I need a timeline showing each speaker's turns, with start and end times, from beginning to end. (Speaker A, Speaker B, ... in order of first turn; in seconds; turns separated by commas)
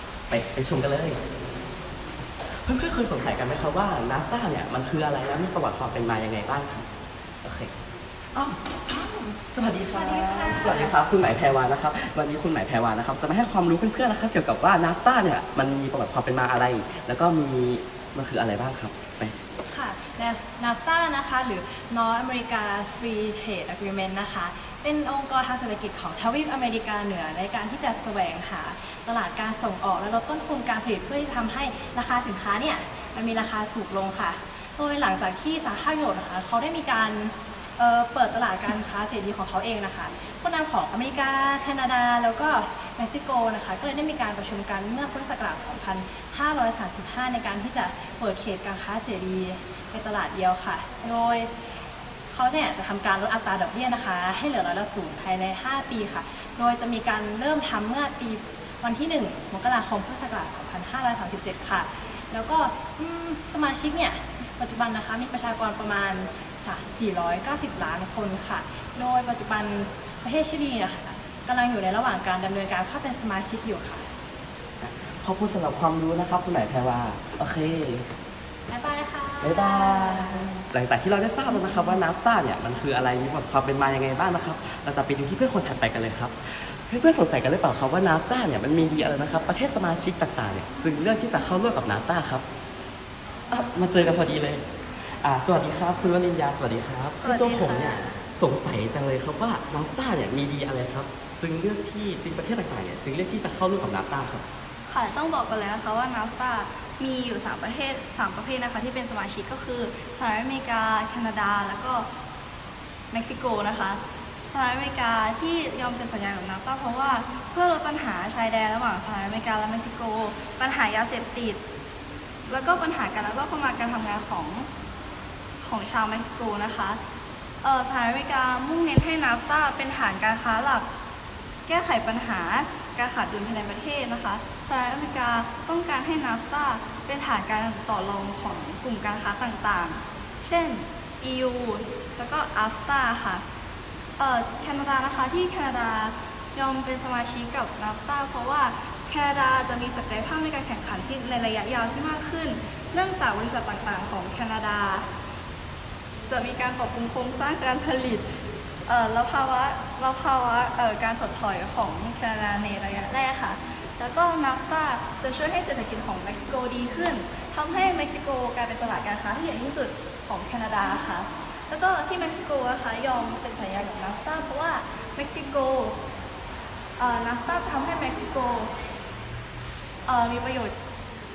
Speaker A: 0.3-1.2, Speaker A: 2.5-6.9, Speaker A: 7.4-7.7, Speaker A: 8.3-8.8, Speaker B: 8.9-9.4, Speaker A: 9.5-19.4, Speaker B: 9.9-10.9, Speaker B: 19.7-51.5, Speaker B: 52.3-74.0, Speaker A: 74.8-78.1, Speaker B: 78.7-80.6, Speaker A: 79.4-92.4, Speaker A: 93.5-104.4, Speaker C: 97.2-98.2, Speaker C: 104.9-112.1, Speaker C: 113.1-121.6, Speaker C: 122.5-124.7, Speaker C: 125.6-127.0, Speaker C: 127.6-130.9, Speaker C: 131.7-143.4, Speaker C: 144.2-155.1, Speaker C: 156.3-158.2, Speaker C: 158.9-176.0, Speaker C: 177.0-178.7, Speaker C: 180.1-180.7